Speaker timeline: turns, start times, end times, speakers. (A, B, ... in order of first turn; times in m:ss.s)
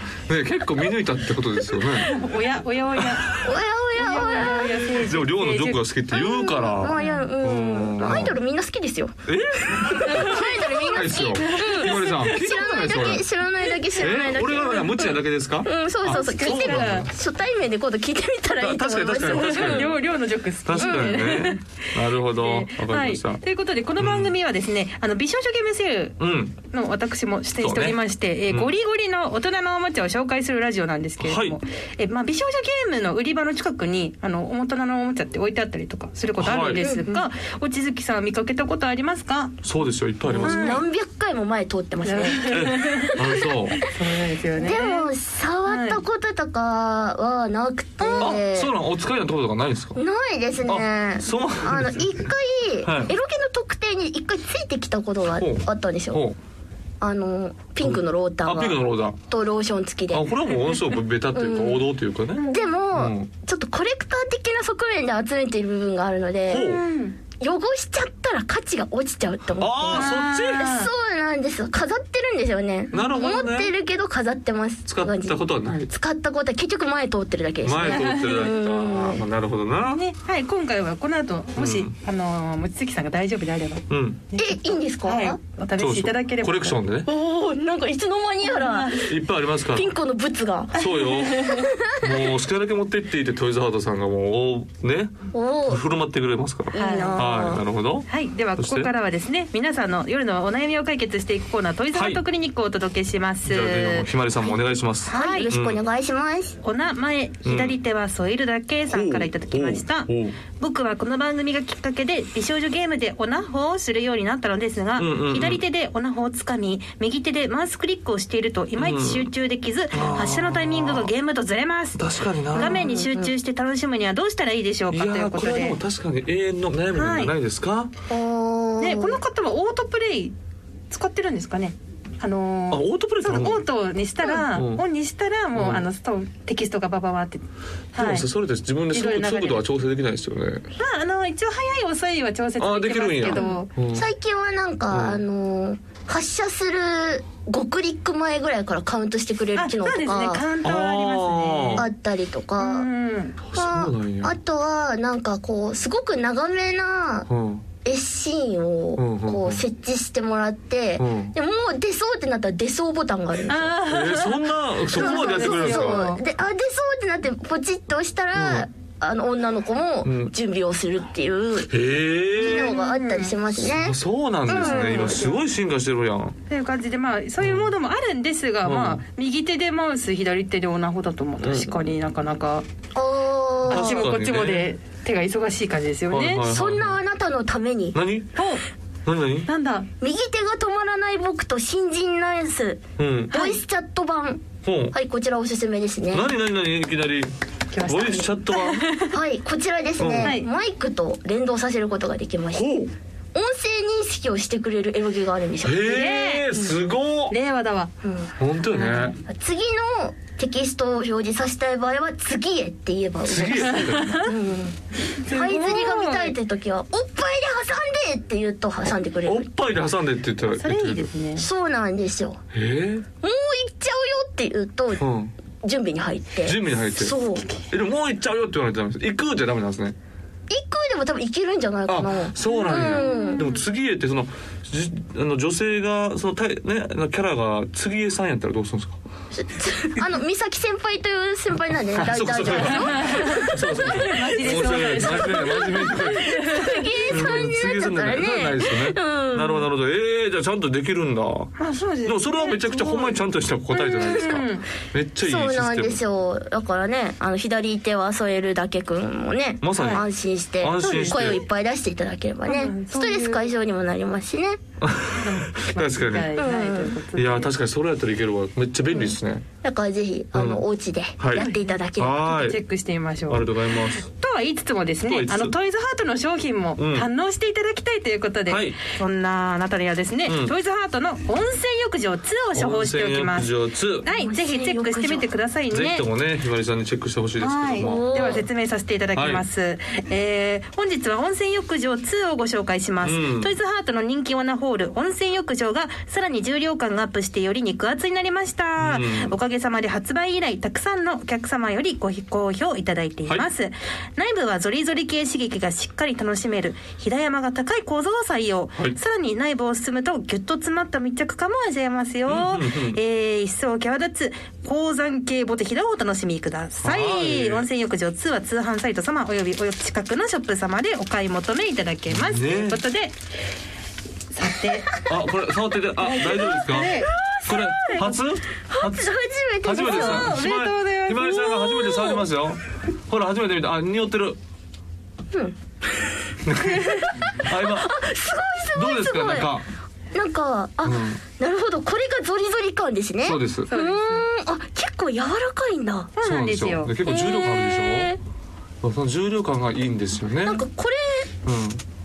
0:00.3-0:02.1 A
0:02.0-0:05.8 B
0:03.0-0:03.5 A
0:03.3-0:04.8 C
0:04.9-0:08.4 A
0:06.1-0:19.9 C
0:07.0-0:07.3 B
0:09.2-0:13.2 A
0:11.4-0:12.2 B
0:14.0-0:17.1 A
0:16.0-0:17.1 B
0:18.6-0:20.0 A
0:19.2-0:26.2 B
0:20.6-0:23.4 A
0:20.8-0:21.4 C
0:24.0-0:24.3 A
0:26.2-0:26.5 A
0:26.7-0:39.6 B
0:27.6-0:28.7 A
0:31.2-0:31.6 A
0:36.4-0:36.8 A
0:36.8-0:37.0 C
0:39.6-0:40.8 A
0:40.3-0:43.4 C
0:40.4-0:40.8 B
0:42.0-0:43.2 B
0:42.5-0:43.8 A
0:43.8-0:45.1 B
0:44.6-0:48.7 C
0:45.6-0:46.0 B
0:48.0-0:48.4 B
0:48.2-0:50.0 A
0:50.0-0:56.2 C
0:50.6-0:52.3 A
0:52.8-0:53.1 A
0:55.4-0:56.4 A
0:57.0-1:00.3 C
0:57.8-0:59.2 A
1:00.1-1:02.4 A
1:01.3-1:01.9 C
1:02.4-1:02.6 B
1:02.5-1:06.8 C
1:02.9-1:03.3 A
1:06.5-1:06.8 A
1:06.5-1:07.2 B
1:07.4-1:19.2 C
1:09.6-1:10.7 A
1:09.9-1:10.9 B
1:12.9-1:13.7 A
1:12.9-1:13.4 B
1:14.9-1:15.9 A
1:17.6-1:20.0 A
1:17.8-1:18.5 B
1:19.9-1:26.8 B
1:21.6-1:21.9 A
1:23.9-1:24.2 A
1:24.4-1:25.4 C
1:25.8-1:27.1 A
1:27.1-1:29.1 C
1:28.4-1:29.0 B
1:29.1-1:29.9 A
1:29.7-1:32.2 C
1:30.7-1:38.9 A
1:30.8-1:31.6 B
1:35.3-1:35.8 C
1:36.7-1:37.6 C
1:36.7-1:37.2 B
1:38.1-1:44.1 B
1:41.9-1:42.2 A
1:43.4-1:45.8 A
1:45.1-1:45.5 B
1:45.1-1:46.6 C
1:46.6-2:05.8 B
1:47.4-1:47.8 A
1:48.9-1:50.4 A
1:55.0-1:55.6 A
1:58.8-1:59.3 A
1:59.9-2:01.1 A
2:02.0-2:02.9 A
2:02.5-2:03.3 C
2:04.9-2:07.9 A
2:06.9-2:07.3 B
2:08.1-2:09.2 C
2:08.8-2:10.4 B
2:10.9-2:18.3 B
2:12.7-2:13.6 A
2:14.4-2:14.8 A
2:15.5-2:15.8 A
2:18.0-2:20.6 A
2:18.9-2:19.6 B
2:20.8-2:23.7 B
2:22.6-2:24.1 A
2:23.3-2:30.4 C
2:24.9-2:25.2 A
2:29.6-2:31.9 B
2:30.6-2:31.9 A
2:31.8-2:32.9 C
2:32.6-2:33.4 B
2:33.4-2:34.3 A
2:33.5-2:37.3 C
2:37.3-2:37.6 A
2:37.8-2:43.7 C
2:39.0-2:39.6 A
2:41.0-2:41.3 A
2:43.5-2:46.2 B
2:43.8-2:46.1 A
2:44.9-2:51.7 C
2:48.3-2:48.7 A
2:50.0-2:50.3 A
2:51.7-2:52.8 A
2:52.4-2:55.3 C
2:52.4-2:53.4 B
2:53.5-2:56.4 A
2:54.5-2:55.4 B
2:56.5-3:02.6 B
2:57.4-2:57.7 A
2:58.6-2:59.0 A
3:01.4-3:01.9 A
3:02.9-3:04.1 C
3:03.7-3:04.7 A
3:03.7-3:06.4 B
3:06.1-3:07.0 A
3:06.4-3:08.0 C
3:07.9-3:08.4 A
3:08.4-3:08.6 B
3:09.0-3:09.5 A
3:09.5-3:09.9 B
3:10.0-3:16.3 C
3:13.0-3:13.4 A
3:13.3-3:13.6 B
3:14.6-3:14.9 A
3:16.1-3:17.3 A
3:17.7-3:19.1 B
3:17.8-3:18.9 A
3:19.1-3:22.7 C
3:20.0-3:20.3 A
3:20.2-3:20.5 B
3:22.5-3:22.9 A
3:23.3-3:25.8 C
3:25.6-3:27.3 A
3:25.8-3:26.5 B
3:27.3-3:27.9 B
3:28.0-3:28.3 C
3:28.4-3:29.2 A
3:28.7-3:29.1 B
3:29.2-3:39.4 C
3:33.2-3:34.3 A
3:33.8-3:34.3 B
3:35.2-3:36.3 B
3:39.2-3:41.1 A
3:40.6-3:41.4 B
3:41.4-3:42.4 C
3:42.5-3:43.0 A
3:43.2-3:45.0 C
3:45.0-3:45.3 A
3:45.6-3:47.4 C
3:46.4-3:47.2 A
3:47.7-3:50.0 A
3:50.5-3:53.4 C
3:51.9-3:59.0 A
3:52.5-3:53.6 B
3:59.3-4:09.7 C
4:01.9-4:11.5 A
4:02.6-4:07.1 B
4:11.6-4:13.2 B
4:12.0-4:16.0 A
4:13.7-4:14.4 C
4:14.0-4:14.6 B
4:15.2-4:24.6 C
4:19.6-4:20.0 A
4:19.7-4:20.0 B
4:20.6-4:21.4 A
4:20.8-4:21.4 B
4:22.4-4:23.5 B
4:24.8-4:26.3 A
4:25.2-4:27.5 B
4:26.4-4:27.0 C
4:27.1-4:29.4 A
4:28.9-4:32.2 C
4:30.3-4:30.6 A
4:31.2-4:32.6 A
4:31.3-4:43.5 B
4:33.3-4:34.0 A
4:35.0-4:35.5 A
4:36.8-4:37.1 A
4:38.5-4:38.8 A
4:40.2-4:40.5 A
4:42.5-4:44.0 A
4:44.0-4:45.3 C
4:44.0-4:46.0 B
4:45.7-4:48.4 A
4:47.4-5:23.2 B
4:47.8-4:48.4 C
4:49.1-4:49.4 A
4:53.0-4:53.5 A
4:58.8-4:59.4 A
5:12.2-5:13.0 A
5:16.8-5:17.7 A
5:22.1-5:22.8 A
5:24.3-5:25.0 B
5:25.1-5:29.1 A
5:26.0-5:27.1 B
5:26.3-5:28.1 C
5:28.7-5:30.4 C
5:29.6-5:34.4 A
5:29.8-5:31.4 B
5:31.2-5:32.2 C
5:35.3-5:39.5 C
5:36.4-5:37.9 A
5:38.7-5:39.6 A
5:40.1-5:46.1 C
5:40.8-5:41.2 A
5:43.2-5:43.7 A
5:43.7-5:44.2 B
5:46.2-5:46.9 B
5:46.2-5:48.2 A
5:47.0-5:48.2 C
5:48.8-5:50.6 A
5:50.4-5:51.3 C
5:51.4-5:51.8 A